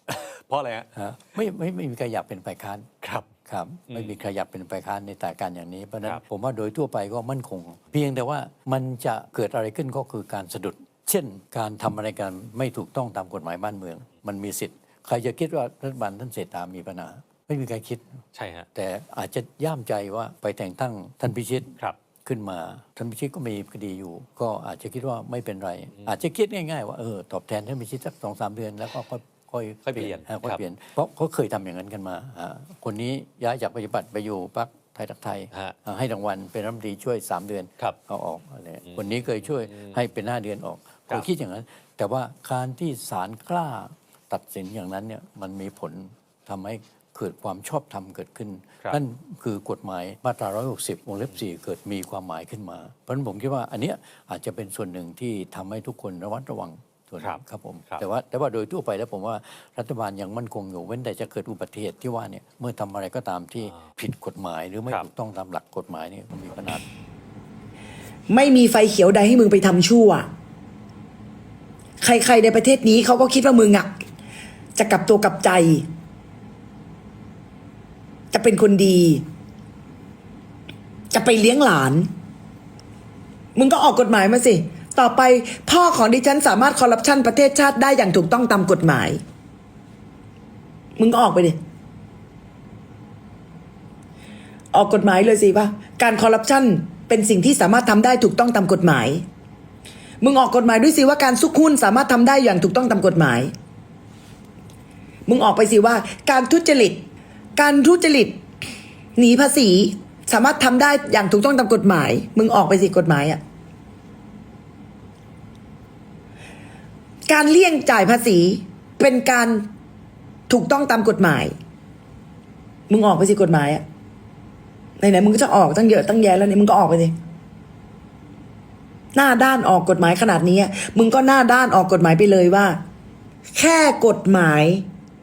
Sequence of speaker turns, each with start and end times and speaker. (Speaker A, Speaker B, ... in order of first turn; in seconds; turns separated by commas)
Speaker A: 0.2-1.4, Speaker B: 0.9-2.9, Speaker A: 3.0-3.3, Speaker B: 3.5-18.2, Speaker A: 3.9-4.2, Speaker A: 18.3-18.7, Speaker B: 18.7-21.7, Speaker B: 22.2-66.8, Speaker A: 25.9-26.2, Speaker A: 29.8-30.6, Speaker A: 38.8-40.0, Speaker A: 51.2-51.5, Speaker A: 57.2-58.1, Speaker A: 63.6-63.9, Speaker C: 68.3-70.3, Speaker C: 72.0-73.9, Speaker C: 74.8-75.8, Speaker C: 78.3-79.2, Speaker C: 81.1-82.1, Speaker C: 83.5-89.2, Speaker C: 91.0-91.6, Speaker C: 94.7-99.2, Speaker C: 100.2-103.5, Speaker C: 105.3-108.4, Speaker C: 109.2-113.4, Speaker C: 117.3-119.7, Speaker C: 120.5-121.5, Speaker C: 122.9-123.8, Speaker C: 125.0-127.1, Speaker C: 129.1-132.8, Speaker C: 133.5-134.8